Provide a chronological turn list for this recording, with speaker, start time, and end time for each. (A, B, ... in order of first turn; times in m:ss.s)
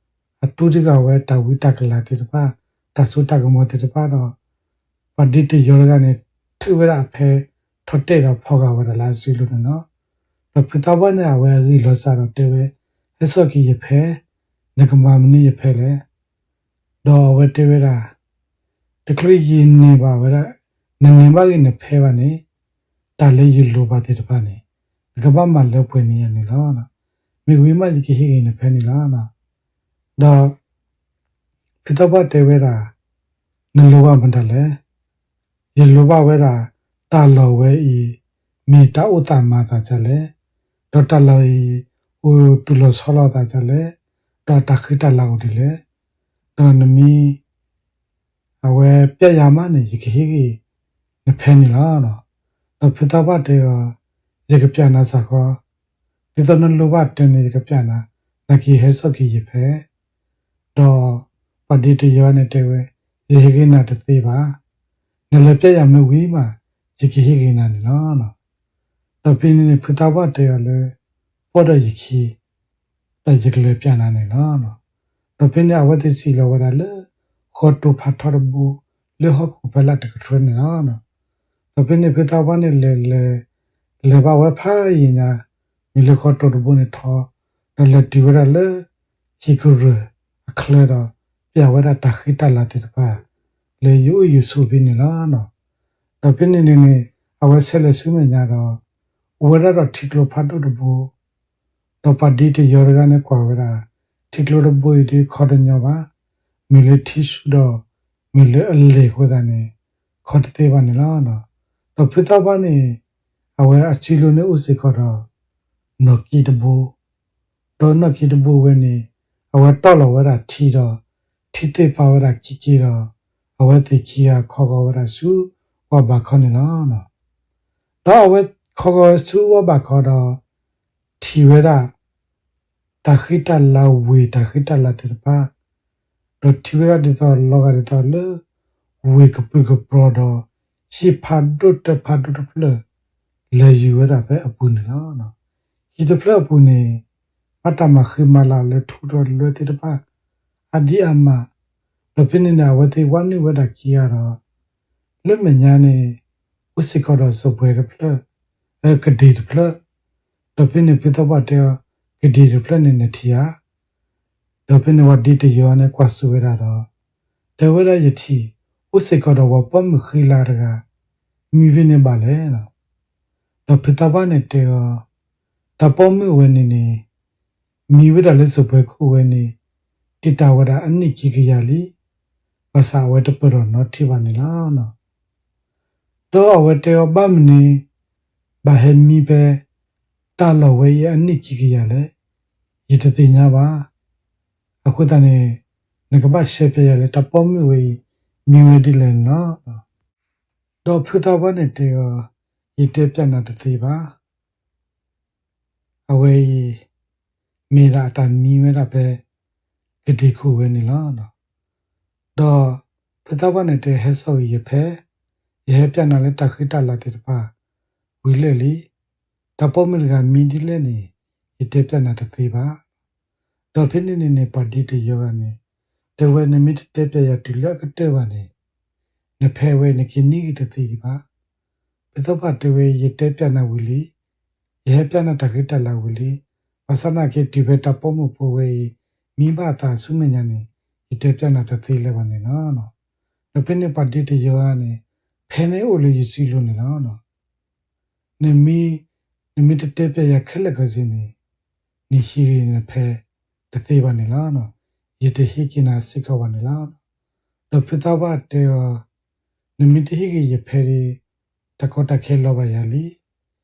0:00.4-0:04.3 A
0:05.2-0:09.8 A
0:10.5-0:14.2 A
0:14.8-0:16.0 A
0:17.0-0:18.1 A
0:19.1-0:20.5 A
0:21.0-0:22.4 A
0:23.2-0:24.6 A
0:25.2-0:26.9 A
0:27.5-0:29.3 A
0:30.2-0:30.5 A
0:31.8-0:32.9 A
0:33.8-0:34.7 A
0:35.8-0:40.3 A
0:40.9-0:43.9 A
0:44.5-0:45.8 A
0:46.6-0:47.4 A
0:48.6-0:50.6 A
0:51.3-0:52.2 A
0:52.8-0:54.0 A
0:54.5-0:55.6 A
0:56.4-0:59.8 A
1:00.8-1:04.5 A
1:05.3-1:08.3 A
1:09.2-1:10.9 A
1:11.5-1:12.4 A
1:13.2-1:14.8 A
1:15.4-1:16.9 A
1:17.5-1:21.0 A
1:21.8-1:23.4 A
1:24.0-1:25.4 A
1:26.0-1:28.8 A
1:29.4-1:33.2 A
1:33.8-1:35.5 A
1:36.2-1:38.8 A
1:39.4-1:41.1 A
1:42.0-1:46.1 A
1:46.7-1:47.8 A
1:48.3-1:49.7 A
1:50.2-1:51.4 A
1:52.0-1:53.0 A
1:53.6-1:55.2 A
1:56.0-1:56.9 A
1:57.8-2:01.0 A
2:01.5-2:03.1 A
2:03.6-2:07.1 A
2:08.0-2:10.4 A
2:11.2-2:11.9 A
2:13.0-2:15.5 A
2:16.4-2:18.4 A
2:19.1-2:22.8 A
2:23.6-2:25.3 A
2:26.0-2:27.0 A
2:27.6-2:30.0 A
2:30.7-2:31.5 A
2:32.2-2:34.4 A
2:35.2-2:36.2 A
2:36.8-2:38.2 A
2:38.8-2:39.8 A
2:40.6-2:43.5 A
2:44.7-2:46.8 A
2:47.6-2:50.8 A
2:51.5-2:52.7 A
2:53.7-2:55.0 A
2:55.8-2:57.0 A
2:57.9-2:59.5 A
3:00.2-3:01.9 A
3:02.7-3:04.9 A
3:06.3-3:07.8 A
3:08.6-3:09.6 A
3:10.4-3:12.1 A
3:12.9-3:13.9 A
3:14.8-3:15.6 A
3:16.1-3:19.6 A
3:20.9-3:22.2 A
3:22.8-3:24.0 A
3:26.1-3:26.8 A
3:27.7-3:29.2 A
3:30.0-3:31.3 A
3:32.4-3:35.0 A
3:35.7-3:37.5 A
3:38.2-3:38.9 A
3:39.6-3:41.1 A
3:41.6-3:42.8 A
3:43.8-3:45.6 A
3:46.2-3:48.5 A
3:49.4-3:51.2 A
3:52.1-3:54.1 A
3:54.9-4:02.9 A
4:03.5-4:07.2 A
4:08.4-4:09.0 A
4:09.6-4:11.3 A
4:12.1-4:13.2 A
4:13.7-4:17.0 A
4:17.7-4:19.0 A
4:19.8-4:21.2 A
4:21.8-4:23.2 A